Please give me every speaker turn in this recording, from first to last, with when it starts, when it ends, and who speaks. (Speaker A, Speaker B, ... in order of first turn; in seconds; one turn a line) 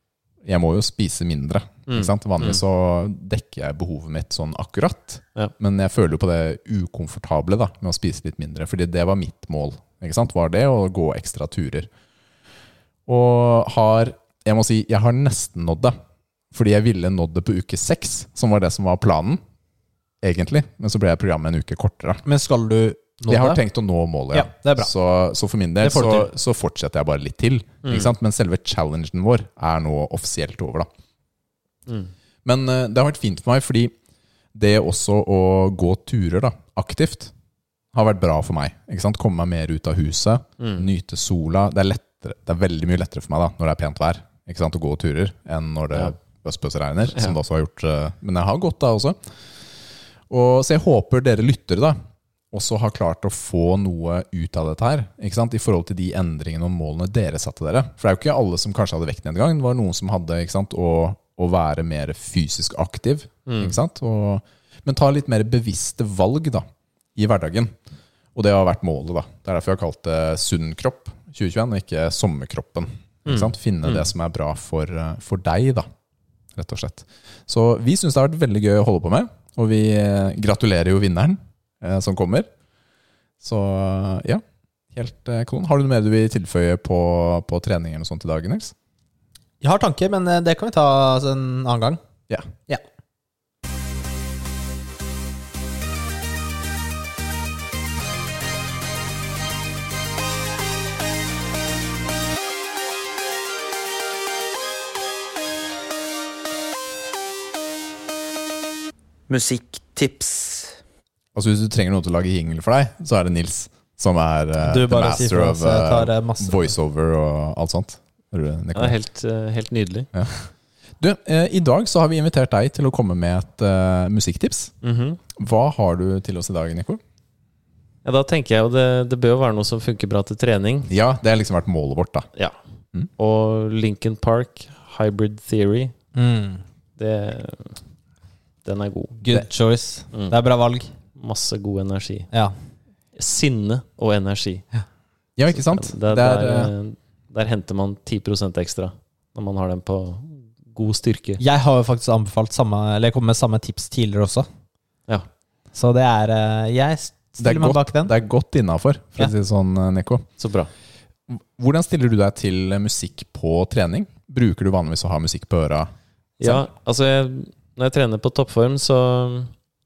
Speaker A: 0.4-11.9
Speaker B: 1.9-2.6
Speaker A: 13.1-15.9
Speaker A: 16.5-19.4
Speaker A: 20.2-22.2
Speaker C: 22.2-23.6
Speaker A: 23.3-30.9
Speaker C: 24.3-24.9
Speaker C: 25.8-26.3
Speaker B: 27.8-28.1
Speaker B: 31.9-32.1
Speaker A: 32.5-33.9
Speaker A: 34.5-37.3
Speaker A: 37.9-49.2
Speaker B: 40.6-40.9
Speaker A: 50.3-52.0
Speaker A: 52.5-67.8
Speaker B: 63.5-63.8
Speaker A: 68.3-75.9
Speaker B: 73.3-74.1
Speaker A: 76.5-82.5
Speaker A: 83.4-88.7
Speaker C: 89.6-92.0
Speaker C: 109.3-110.7
Speaker A: 111.3-119.0
Speaker C: 114.6-116.7
Speaker B: 118.7-120.1
Speaker A: 121.0-124.7
Speaker B: 124.8-125.2
Speaker A: 125.4-127.0
Speaker B: 128.1-130.9
Speaker A: 130.9-132.3
Speaker B: 133.2-135.9
Speaker C: 136.2-136.6
Speaker B: 137.0-137.8
Speaker B: 138.6-139.2
Speaker C: 139.2-140.9
Speaker B: 141.2-142.3
Speaker B: 143.2-144.6
Speaker A: 145.4-146.7
Speaker B: 145.7-151.4
Speaker C: 151.4-154.5
Speaker C: 155.7-158.2
Speaker A: 157.4-160.3
Speaker B: 160.4-160.7
Speaker A: 161.3-165.9
Speaker B: 166.4-169.5